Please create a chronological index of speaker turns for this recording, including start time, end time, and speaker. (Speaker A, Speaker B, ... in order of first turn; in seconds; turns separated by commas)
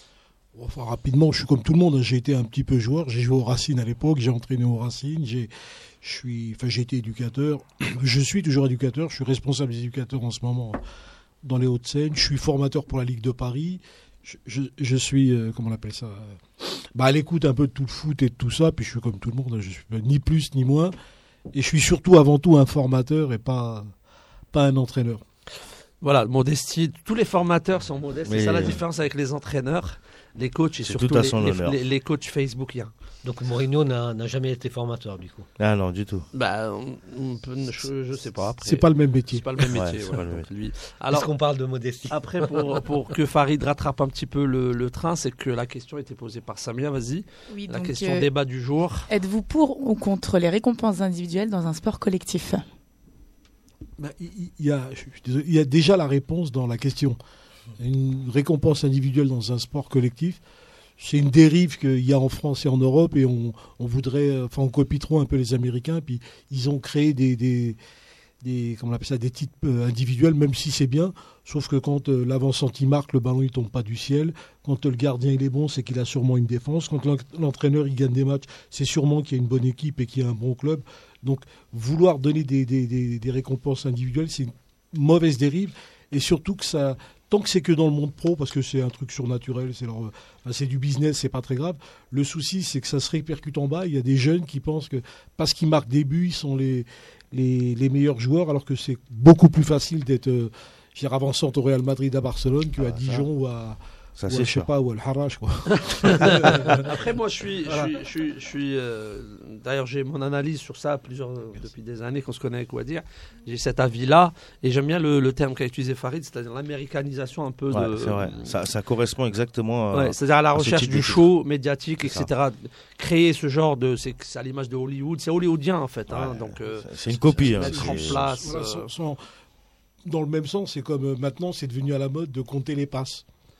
Speaker A: 0.6-5.5, Speaker A: 6.0-10.8, Speaker A: 11.4-20.9, Speaker A: 21.5-23.9, Speaker A: 24.5-25.2, Speaker B: 26.0-32.9, Speaker C: 28.3-28.8, Speaker C: 30.9-31.8, Speaker D: 33.2-35.5, Speaker C: 35.6-36.3, Speaker B: 36.3-41.3, Speaker A: 38.6-39.7, Speaker C: 39.7-40.5, Speaker D: 41.1-42.5, Speaker B: 42.1-49.1, Speaker E: 47.5-48.3, Speaker E: 49.1-52.6, Speaker A: 54.0-57.2, Speaker A: 57.8-60.4, Speaker A: 61.0-67.8, Speaker A: 68.4-106.9, Speaker C: 102.8-103.3, Speaker C: 104.2-104.7, Speaker B: 106.0-118.6, Speaker C: 106.3-106.8, Speaker A: 107.7-107.9, Speaker C: 117.7-121.2, Speaker B: 119.9-128.9, Speaker C: 122.0-122.3, Speaker C: 126.1-128.5, Speaker A: 127.3-129.2, Speaker A: 130.1-133.2